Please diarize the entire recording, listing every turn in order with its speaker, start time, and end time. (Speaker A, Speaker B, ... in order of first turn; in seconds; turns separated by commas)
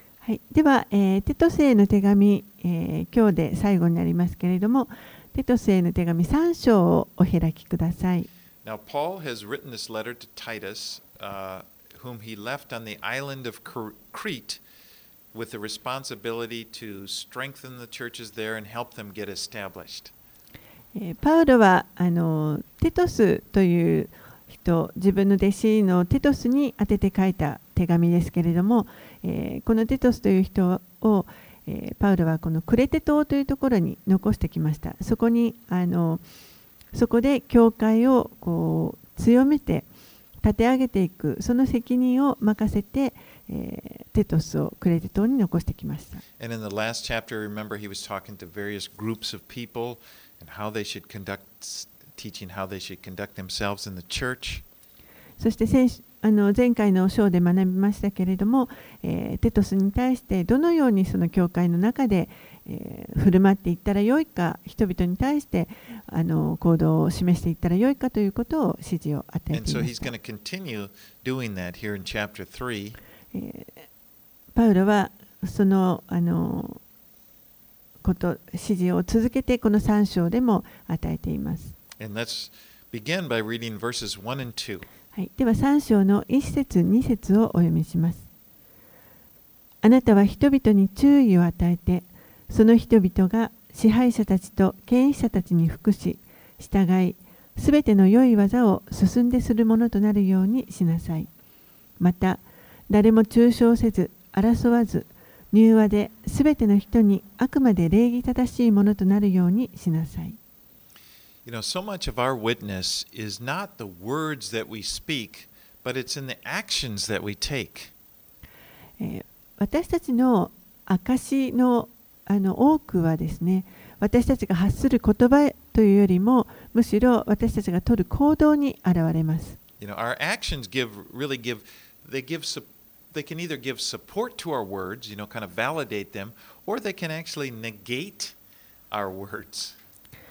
Speaker A: 0.2-8.3, Speaker B: 8.6-14.6, Speaker B: 15.3-20.1, Speaker A: 20.9-36.2, Speaker A: 36.9-39.9, Speaker A: 40.4-46.2, Speaker B: 46.4-54.6, Speaker A: 55.4-70.1, Speaker B: 69.5-73.0, Speaker A: 73.3-73.7, Speaker A: 74.5-76.8, Speaker A: 78.0-81.8, Speaker B: 82.0-84.9, Speaker A: 85.1-88.3, Speaker A: 89.8-101.3, Speaker A: 102.0-110.4, Speaker B: 111.4-117.9, Speaker A: 119.0-129.6, Speaker B: 129.8-138.3, Speaker B: 138.9-139.8